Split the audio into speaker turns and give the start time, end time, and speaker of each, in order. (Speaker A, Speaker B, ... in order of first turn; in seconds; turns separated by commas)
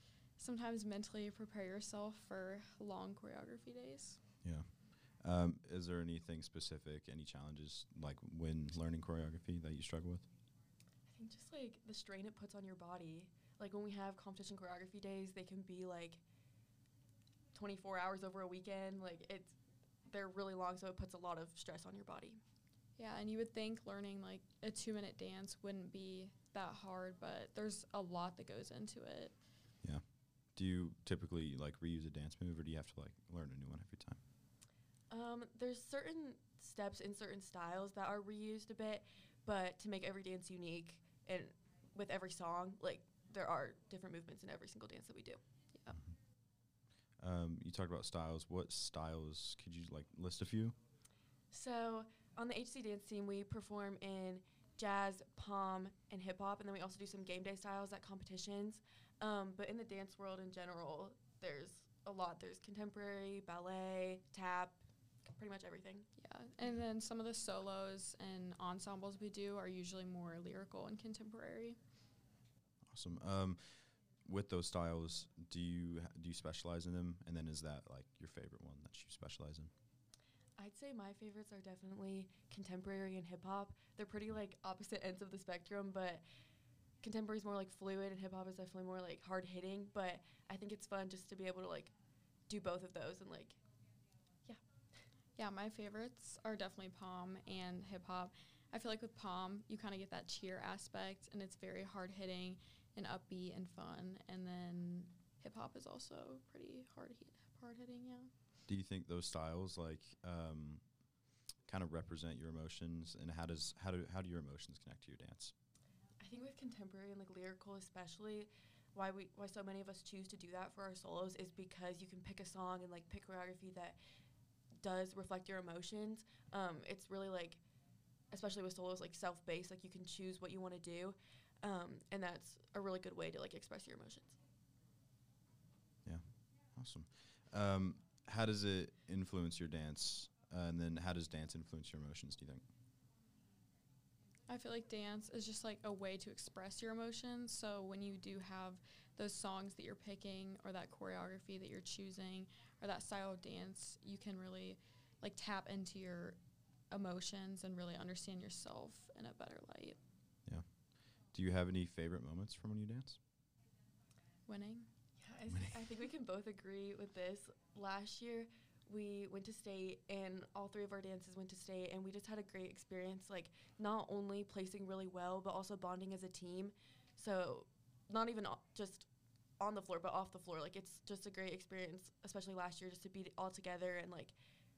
Speaker A: 0.4-4.2, Speaker B: 4.4-10.3, Speaker C: 11.1-16.2, Speaker C: 17.5-19.6, Speaker C: 20.1-22.4, Speaker A: 23.0-29.4, Speaker B: 29.8-34.2, Speaker C: 35.1-45.4, Speaker B: 47.2-50.8, Speaker C: 51.5-66.1, Speaker A: 66.2-71.8, Speaker B: 72.9-79.7, Speaker C: 80.6-86.2, Speaker C: 87.0-91.9, Speaker C: 92.5-93.6, Speaker C: 94.5-95.0, Speaker A: 95.4-108.3, Speaker B: 108.7-115.5, Speaker C: 116.2-124.0, Speaker C: 124.8-127.6, Speaker C: 128.3-134.4, Speaker B: 136.1-142.7, Speaker A: 144.5-156.4, Speaker A: 156.9-160.0, Speaker B: 160.5-163.2, Speaker A: 164.5-164.9, Speaker C: 165.2-179.1, Speaker C: 179.6-184.3